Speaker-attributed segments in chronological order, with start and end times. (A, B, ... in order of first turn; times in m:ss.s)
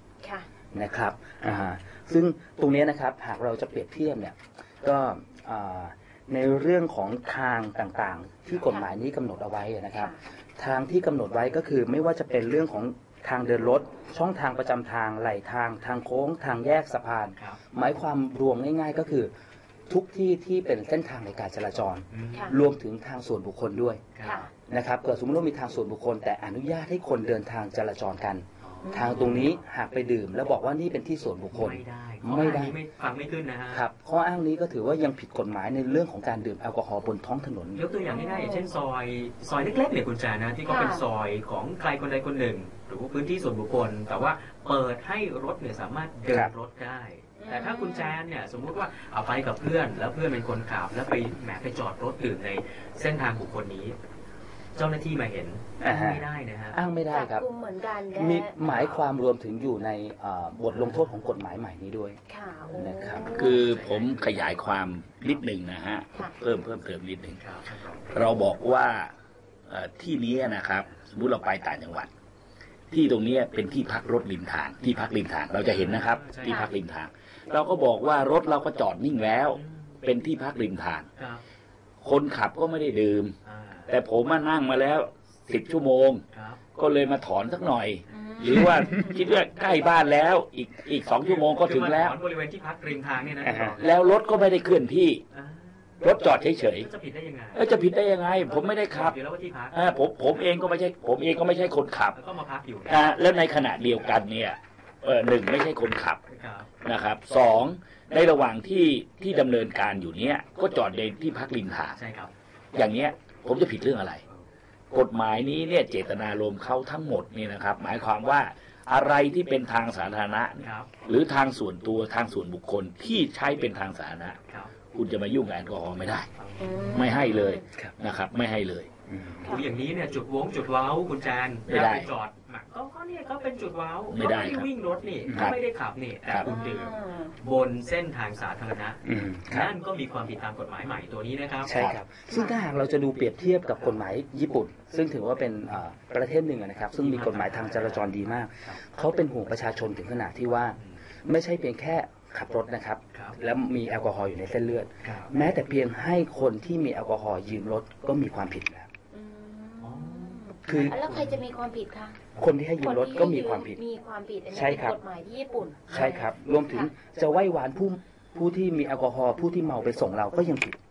0:00.2-0:00.5 A
0:00.7-0:19.3 B
0:19.9-0:24.0 B
0:22.1-0:22.6 C
0:24.1-0:24.5 C
0:24.7-0:32.8 B
0:28.6-0:29.5 C
0:28.8-0:29.3 A
0:31.5-0:33.8 C
0:33.7-0:37.8 B
0:37.7-0:54.0 C
0:38.0-0:38.7 A
0:40.6-0:41.0 A
0:46.3-0:46.5 B
0:47.4-0:48.1 A
0:54.8-0:56.8 C
0:55.8-0:57.4 B
0:57.1-0:58.5 A
0:58.1-1:02.2 B
0:58.6-0:59.0 C
1:00.7-1:01.1 C
1:02.3-1:03.6 A
1:02.6-1:04.6 C
1:02.8-1:03.4 B
1:03.3-1:07.4 D
1:07.4-1:08.2 C
1:08.1-1:09.1 D
1:09.7-1:12.1 D
1:12.9-1:21.1 D
1:15.6-1:16.7 C
1:16.4-1:16.7 A
1:19.6-1:20.0 C
1:21.2-1:21.4 C
1:22.0-1:23.3 D
1:23.4-1:23.9 C
1:23.9-1:26.2 D
1:26.3-1:26.6 C
1:26.8-1:32.2 D
1:28.1-1:29.2 A
1:31.1-1:33.9 C
1:33.4-1:33.8 B
1:33.8-1:35.2 D
1:35.3-1:39.8 C
1:36.0-1:36.9 D
1:37.5-1:39.2 D
1:39.7-1:42.2 D
1:42.1-1:43.4 C
1:42.9-1:46.2 D
1:46.3-1:46.7 C
1:46.8-1:52.0 D
1:51.9-1:52.3 C
1:52.7-1:54.2 D
1:54.9-2:04.4 D
2:00.6-2:00.9 C
2:04.9-2:06.3 D
2:06.4-2:07.2 C
2:06.6-2:07.6 A
2:06.9-2:08.9 D
2:09.1-2:09.6 B
2:09.4-2:21.8 C
2:11.7-2:12.1 D
2:14.1-2:14.7 D
2:15.3-2:15.5 B
2:15.3-2:15.6 D
2:16.4-2:17.3 A
2:19.0-2:19.7 B
2:21.6-2:38.9 B
2:22.3-2:22.6 A
2:27.0-2:28.8 C
2:35.0-2:35.3 C
2:39.1-2:42.2 A
2:39.8-2:41.4 C
2:40.7-2:41.0 B
2:42.4-2:43.8 B
2:42.8-2:46.9 A
2:44.5-2:45.0 B
2:45.9-2:50.8 B